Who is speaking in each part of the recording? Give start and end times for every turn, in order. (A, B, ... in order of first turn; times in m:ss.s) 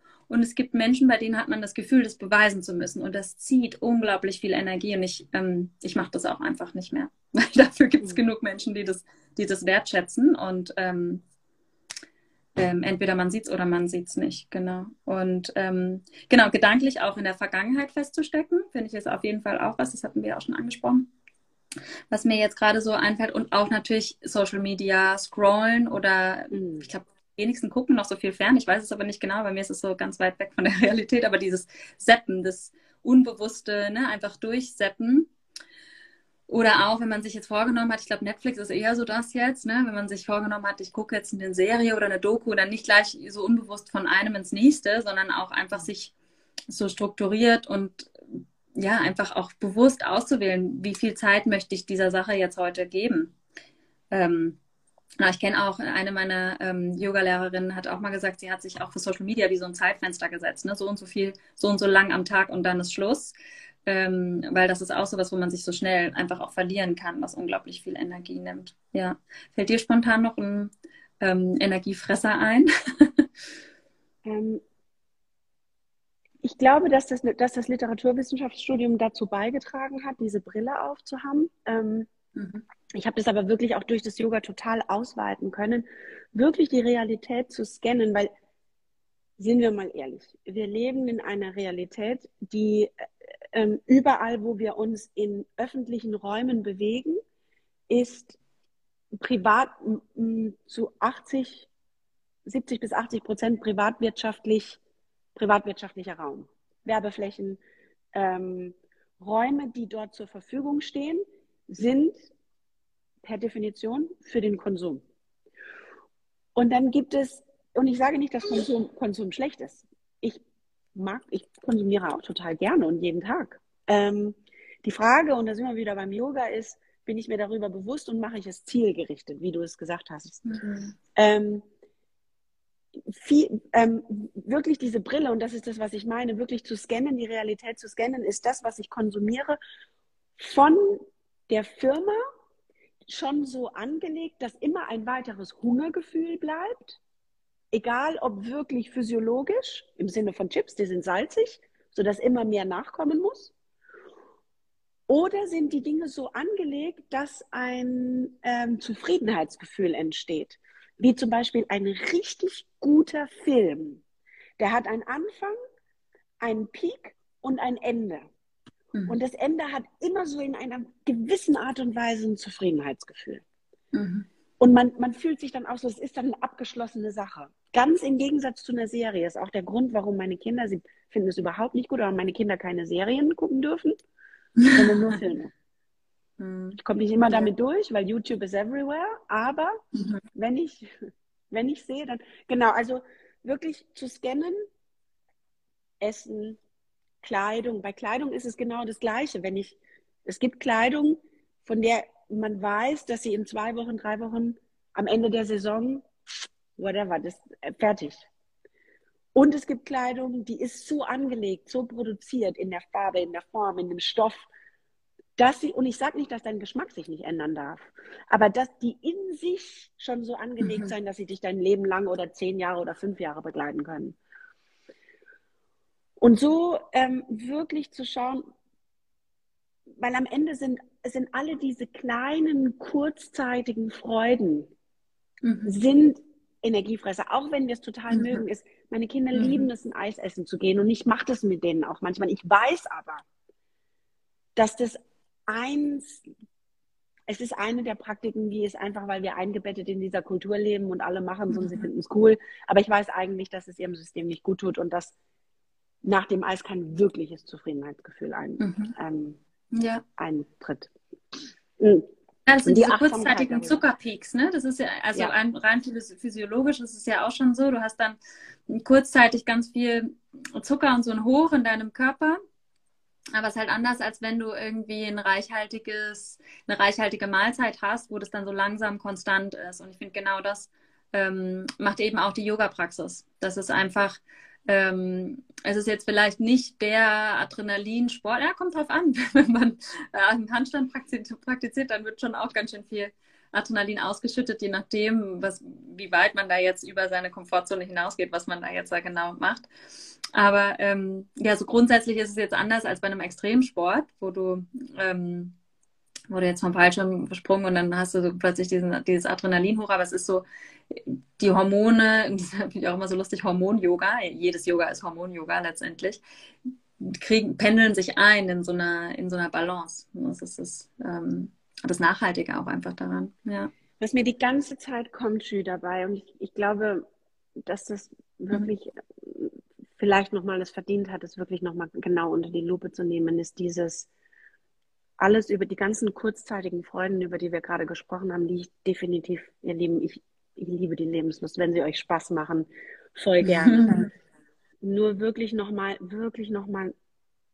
0:00.3-0:11.2 A
0:12.6-0:21.1 A
0:22.1-0:35.3 A
0:26.5-0:26.9 B
0:36.5-0:46.1 A
0:46.7-0:53.3 A
0:54.1-0:54.6 A
0:55.2-1:03.3 A
1:03.9-1:13.3 A
1:14.3-1:14.6 B
1:16.4-1:22.1 B
1:22.4-1:22.6 A
1:22.9-1:28.3 B
1:29.4-1:32.9 B
1:33.5-1:37.2 B
1:37.9-1:38.4 B
1:39.2-1:41.7 B
1:42.4-1:44.8 B
1:45.4-1:47.6 B
1:48.1-1:52.3 B
1:53.2-1:55.0 B
1:56.6-2:00.4 B
2:01.0-2:10.6 B
2:10.4-2:10.9 A
2:11.1-2:11.6 B
2:13.1-2:19.6 B
2:20.4-2:22.2 B
2:23.1-2:27.0 B
2:27.7-2:33.5 B
2:35.1-2:44.0 B
2:44.6-2:45.6 B
2:46.4-2:48.3 B
2:49.1-2:53.4 B
2:53.9-2:54.3 A
2:54.6-3:04.0 B
3:04.6-3:05.1 A
3:04.7-3:05.5 B
3:06.4-3:07.5 A
3:06.8-3:09.8 B
3:09.9-3:10.2 A
3:10.3-3:10.9 B
3:11.5-3:14.6 B
3:16.0-3:16.6 B
3:17.2-3:26.1 B
3:26.8-3:28.3 B
3:29.3-3:34.5 B
3:35.4-3:44.2 B
3:40.6-3:40.9 A
3:46.2-3:48.4 B
3:50.0-3:54.7 B
3:55.4-3:55.7 A
3:55.7-4:03.2 B
3:58.1-3:58.4 A
3:59.3-3:59.7 A
4:04.6-4:06.2 B
4:07.3-4:15.1 B
4:11.5-4:11.8 A
4:16.0-4:19.4 B
4:18.6-4:18.9 A
4:19.7-4:20.0 A
4:20.2-4:20.9 B
4:21.8-4:22.1 B
4:22.4-4:32.4 A
4:22.6-4:23.8 B
4:33.3-4:59.7 A
5:00.3-5:05.6 A
5:06.3-5:16.2 A
5:17.0-5:23.7 A
5:24.0-5:27.0 B
5:27.7-5:34.1 B
5:35.2-5:44.1 B
5:43.4-5:44.1 A
5:44.8-5:46.9 B